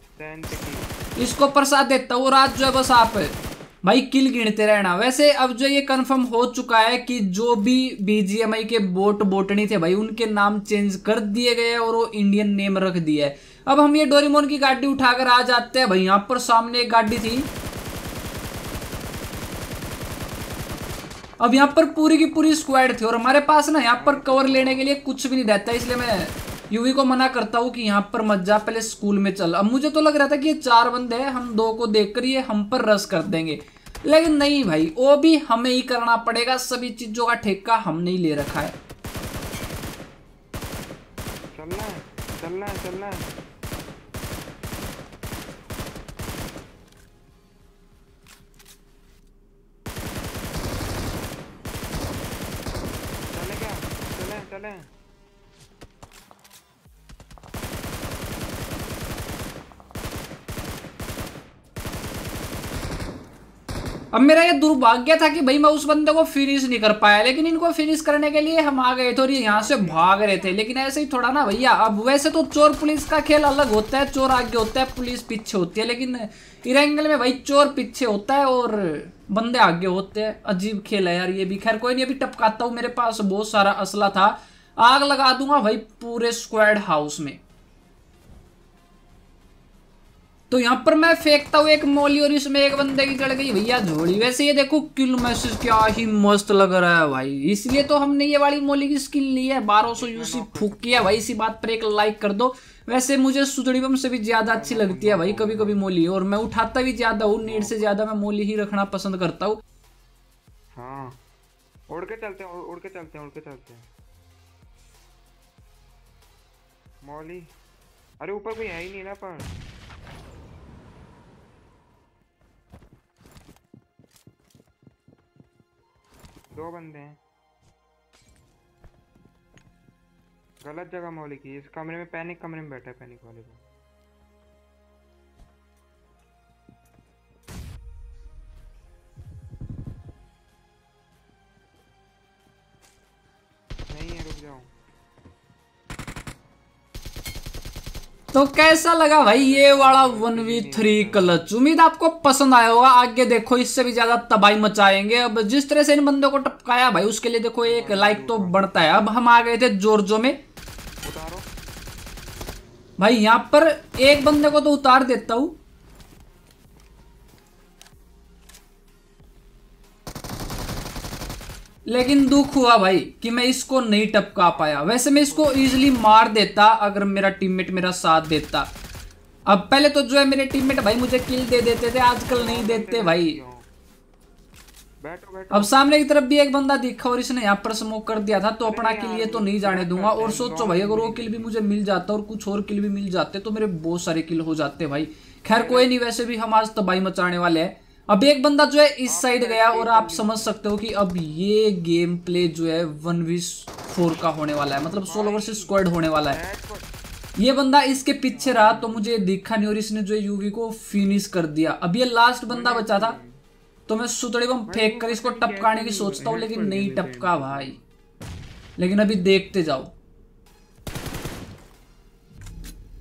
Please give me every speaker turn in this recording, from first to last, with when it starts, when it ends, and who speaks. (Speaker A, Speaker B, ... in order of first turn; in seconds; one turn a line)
Speaker A: 0.1-0.9
Speaker B: 1.2-17.5
Speaker B: 21.4-38.8
Speaker A: 23.9-24.9
Speaker A: 41.5-43.3
Speaker A: 53.3-54.9
Speaker B: 64.1-87.4
Speaker A: 69.6-70.3
Speaker B: 90.5-109.6
Speaker A: 99.9-101.2
Speaker A: 104.5-105.8
Speaker A: 107.4-107.8
Speaker A: 110.8-111.2
Speaker A: 111.9-113.9
Speaker A: 117.0-117.5
Speaker A: 118.2-119.5
Speaker A: 126.5-127.2
Speaker A: 130.6-133.6
Speaker A: 143.9-144.7
Speaker B: 148.3-160.4
Speaker A: 149.3-151.4
Speaker A: 157.6-158.7
Speaker A: 161.0-161.5
Speaker B: 163.0-165.6
Speaker B: 171.9-178.7
Speaker A: 174.5-176.3
Speaker B: 179.5-183.4
Speaker A: 182.3-183.7
Speaker A: 185.0-185.8
Speaker B: 185.5-206.4
Speaker A: 188.6-191.5
Speaker A: 195.5-195.9
Speaker A: 199.1-200.7
Speaker A: 204.9-206.9
Speaker B: 207.4-213.2
Speaker A: 208.3-209.1
Speaker A: 212.5-213.4
Speaker B: 213.9-217.8
Speaker A: 214.7-217.8
Speaker B: 218.8-219.9